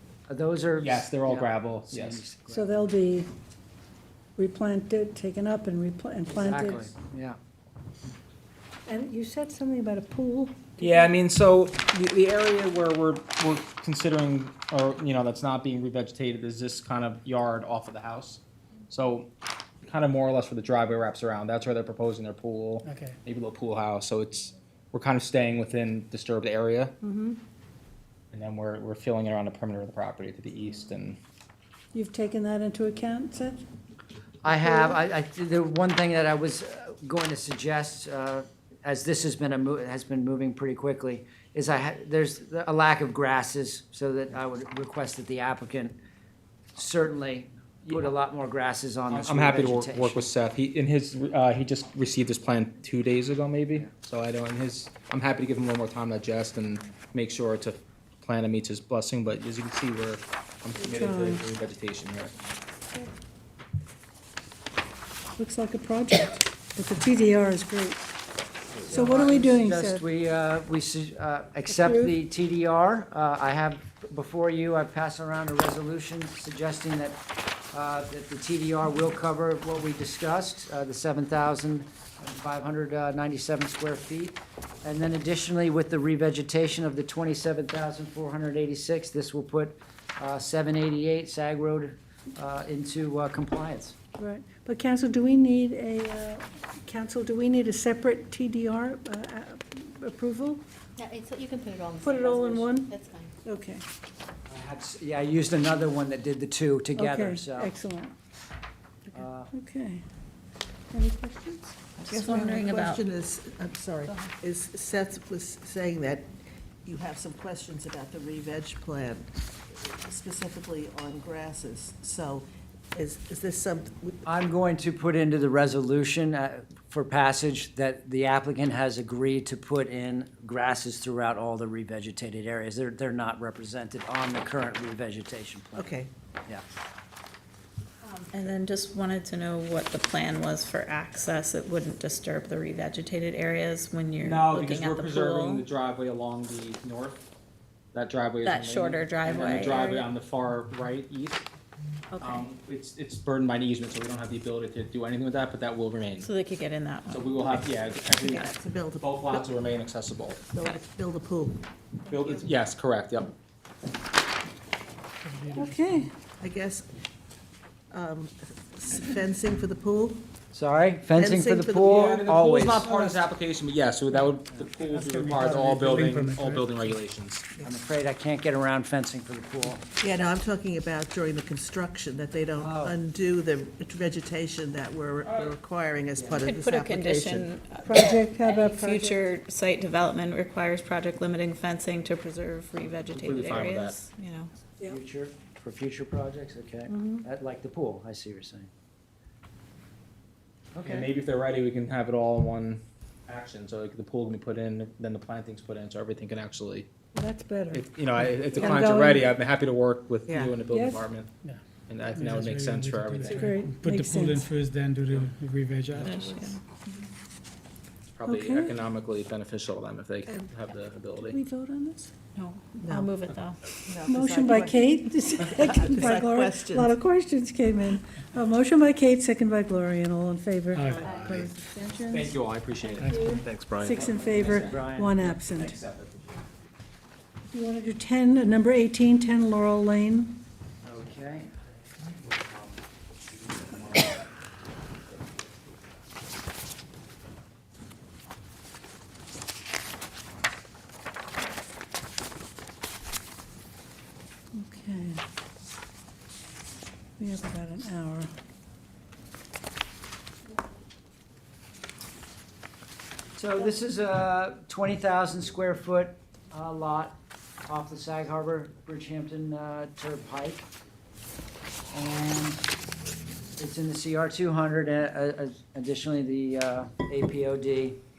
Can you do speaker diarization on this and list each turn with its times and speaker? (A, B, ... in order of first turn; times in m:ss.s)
0:00.3-0:02.9 A
0:00.8-0:02.2 B
0:02.5-0:03.3 C
0:04.4-0:06.9 C
0:06.3-0:07.4 A
0:08.9-0:11.1 C
0:10.8-0:19.3 B
0:19.8-0:27.0 B
0:22.8-0:23.2 D
0:27.0-0:27.4 C
0:28.3-0:31.2 B
0:31.9-0:33.7 C
0:34.4-0:46.0 A
0:34.5-0:35.0 C
0:46.8-0:50.3 A
0:49.1-1:02.3 B
1:00.8-1:01.4 C
1:05.4-1:08.0 C
1:08.8-1:17.2 A
1:08.8-1:10.0 C
1:11.7-1:12.2 C
1:17.7-1:34.0 A
1:34.2-1:40.6 C
1:41.0-1:43.3 E
1:42.0-1:43.8 C
1:44.5-1:47.8 A
1:47.0-1:48.1 C
1:49.1-1:50.0 C
1:49.1-1:49.5 A
1:50.9-1:51.8 C
1:52.0-1:56.3 F
1:52.0-1:53.0 G
1:56.8-2:04.2 F
2:04.2-2:16.6 A
2:15.8-2:16.1 F
2:18.0-2:25.7 G
2:24.2-2:27.2 B
2:27.9-2:31.4 B
2:28.4-2:30.1 G
2:32.1-2:32.5 G
2:32.2-2:36.3 B
2:36.2-2:37.6 G
2:37.1-2:40.4 B
2:38.1-2:39.5 F
2:40.5-2:41.6 F
2:42.1-2:43.3 B
2:45.2-2:46.1 D
2:45.5-2:46.1 C
2:46.4-2:46.9 F
2:47.9-2:50.2 F
2:50.5-2:52.9 A
2:51.2-2:53.2 F
2:51.9-2:57.5 B
2:54.8-2:57.0 D
2:57.6-2:59.8 A
3:00.0-3:07.5 F
3:02.6-3:03.0 A
3:05.2-3:05.5 B
3:06.2-3:06.4 A
3:06.3-3:14.5 G
3:07.8-3:09.3 C
3:13.1-3:14.0 B
3:14.8-3:18.7 A
3:16.9-3:17.3 C
3:20.7-3:21.1 A
3:20.8-3:26.9 B
3:27.1-3:27.9 C
3:27.7-3:31.3 B
3:28.6-3:29.3 C
3:30.3-3:30.5 F
3:30.7-3:31.0 C
3:31.9-3:33.7 B
3:32.1-3:36.3 D
3:33.2-3:34.5 C
3:36.0-3:36.6 B
3:36.0-3:37.1 G
3:38.2-3:41.4 B
3:38.3-3:38.8 C
3:41.2-3:42.1 C
3:42.4-3:43.6 G
3:42.8-3:43.1 F
3:43.9-3:47.0 F
3:44.0-3:52.3 C
3:50.7-3:51.1 D
3:51.0-3:51.3 E
3:51.1-3:51.5 B
3:52.1-3:56.4 B
3:53.0-3:53.4 D
3:53.1-3:55.8 C
3:54.5-3:55.3 A
3:57.5-4:00.4 C
4:00.8-4:01.5 A
4:02.0-4:02.8 B
4:03.3-4:04.2 B
4:14.5-4:15.2 C
4:17.2-4:18.3 C
4:23.4-4:30.7 A
4:31.9-4:32.7 A
4:33.6-4:38.0 A